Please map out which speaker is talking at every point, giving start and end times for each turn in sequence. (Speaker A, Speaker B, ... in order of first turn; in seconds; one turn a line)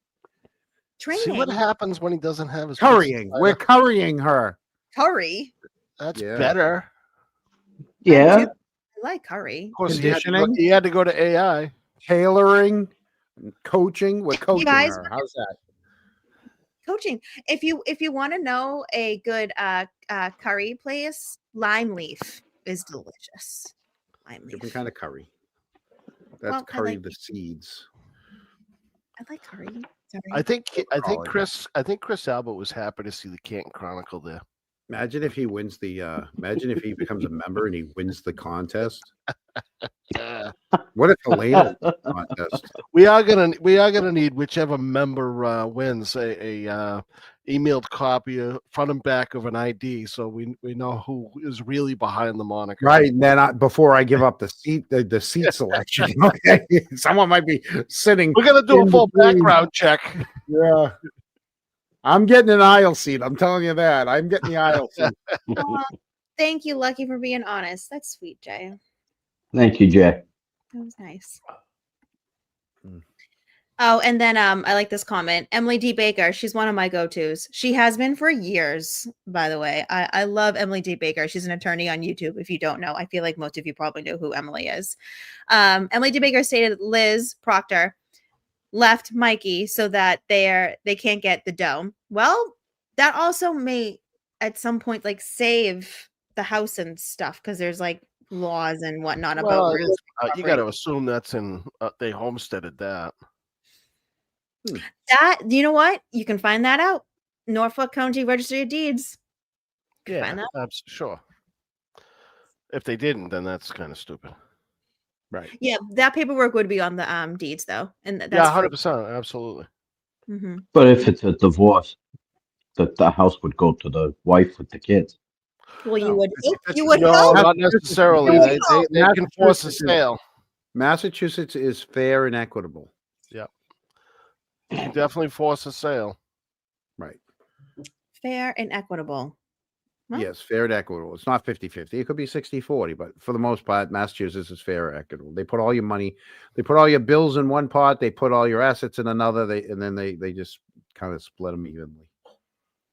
Speaker A: 1.0-1.6
Speaker B: 1.1-3.6
Speaker C: 2.8-4.6
Speaker A: 4.9-5.5
Speaker B: 6.0-6.9
Speaker C: 6.1-6.6
Speaker D: 8.0-8.5
Speaker A: 8.1-9.8
Speaker B: 9.8-11.7
Speaker C: 9.9-10.6
Speaker C: 12.0-12.9
Speaker C: 13.4-15.5
Speaker A: 14.5-15.1
Speaker A: 16.8-23.7
Speaker A: 24.2-24.8
Speaker C: 24.5-25.3
Speaker C: 26.4-27.9
Speaker A: 26.4-27.0
Speaker A: 29.2-30.4
Speaker B: 30.3-34.4
Speaker C: 30.8-31.3
Speaker C: 34.9-39.1
Speaker B: 40.2-40.5
Speaker C: 40.9-42.7
Speaker D: 41.5-42.0
Speaker B: 42.9-53.1
Speaker C: 52.8-59.6
Speaker B: 58.3-60.3
Speaker C: 60.4-60.9
Speaker C: 62.0-65.1
Speaker A: 65.5-68.8
Speaker D: 69.5-70.2
Speaker A: 70.7-71.4
Speaker A: 73.8-85.0
Speaker A: 85.5-87.9
Speaker A: 88.7-100.6
Speaker B: 99.3-103.1
Speaker A: 105.0-109.2
Speaker A: 110.0-110.5
Speaker B: 110.1-111.2
Speaker B: 112.7-114.3
Speaker A: 115.6-118.7
Speaker B: 118.3-119.7
Speaker A: 120.3-120.6
Speaker D: 120.7-122.0
Speaker D: 122.8-125.1
Speaker A: 125.8-127.5
Speaker C: 126.0-130.0
Speaker B: 126.9-130.2
Speaker A: 128.3-128.7
Speaker C: 130.7-132.9
Speaker B: 134.7-136.2
Speaker A: 138.2-139.3
Speaker C: 140.1-152.1